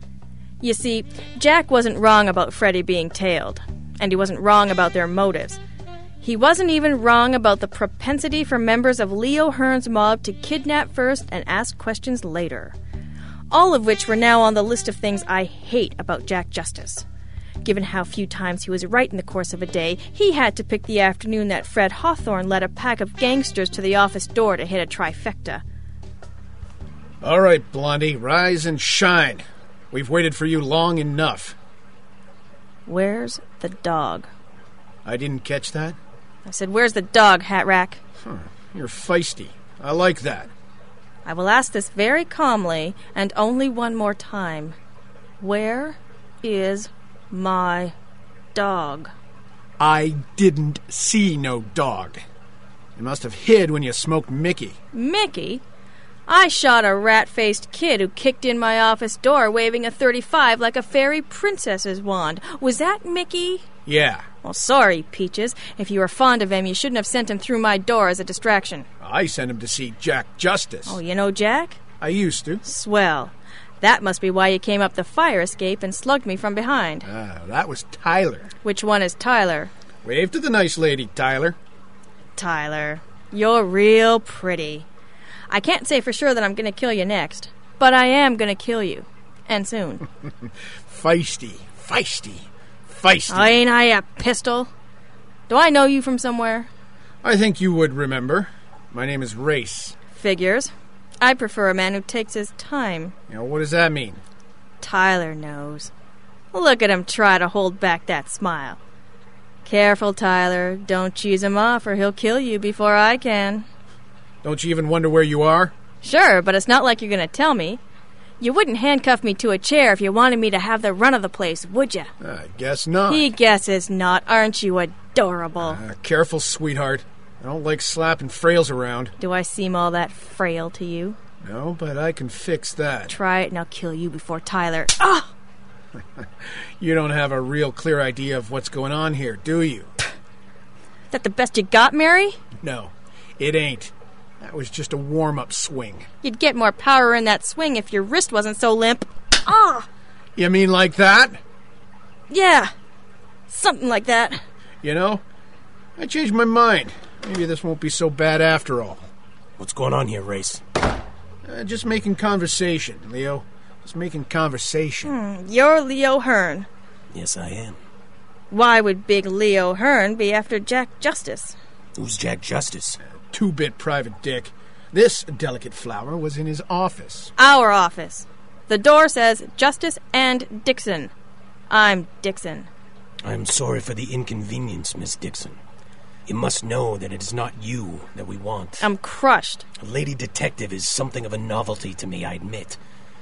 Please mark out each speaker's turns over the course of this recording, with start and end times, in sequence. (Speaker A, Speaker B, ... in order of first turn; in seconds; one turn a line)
Speaker A: 0.6-5.6
Speaker A: 6.2-12.8
Speaker A: 13.5-17.1
Speaker A: 17.6-25.6
Speaker B: 27.2-31.6
Speaker A: 32.9-34.3
Speaker B: 35.0-36.0
Speaker A: 36.5-38.0
Speaker B: 38.2-40.5
Speaker A: 41.2-44.8
Speaker A: 45.4-47.9
Speaker A: 48.5-49.1
Speaker B: 49.8-52.2
Speaker B: 53.0-54.8
Speaker A: 54.9-55.6
Speaker A: 56.3-63.6
Speaker B: 63.9-64.3
Speaker A: 64.4-68.9
Speaker B: 69.0-71.0
Speaker A: 70.9-71.8
Speaker B: 72.0-72.6
Speaker A: 72.6-77.1
Speaker B: 77.0-78.5
Speaker A: 78.6-79.7
Speaker B: 80.0-81.6
Speaker A: 82.4-84.9
Speaker A: 85.5-90.0
Speaker B: 90.9-93.6
Speaker A: 93.3-94.7
Speaker A: 95.5-96.7
Speaker B: 97.2-100.0
Speaker A: 100.1-103.1
Speaker B: 103.3-104.2
Speaker A: 104.8-105.9
Speaker A: 106.5-108.8
Speaker A: 109.7-113.7
Speaker B: 114.4-115.7
Speaker A: 116.0-117.8
Speaker A: 118.4-122.1
Speaker B: 122.2-123.3
Speaker A: 123.1-125.8
Speaker B: 125.6-129.1
Speaker A: 129.2-131.2
Speaker B: 131.4-133.2
Speaker A: 133.1-135.3
Speaker B: 136.8-139.9
Speaker A: 141.1-142.4
Speaker B: 142.6-146.1
Speaker A: 146.2-149.9
Speaker B: 150.4-151.4
Speaker A: 152.3-152.7
Speaker A: 153.5-154.4
Speaker B: 154.8-155.2
Speaker B: 156.0-159.1
Speaker C: 159.6-160.6
Speaker B: 161.4-165.1
Speaker A: 165.0-166.7
Speaker C: 167.1-167.8
Speaker A: 168.5-171.6
Speaker C: 172.0-173.0
Speaker B: 173.3-177.3
Speaker A: 177.4-181.1
Speaker A: 181.7-182.7
Speaker C: 183.2-185.6
Speaker C: 186.3-188.9
Speaker A: 188.8-189.7
Speaker C: 189.8-192.8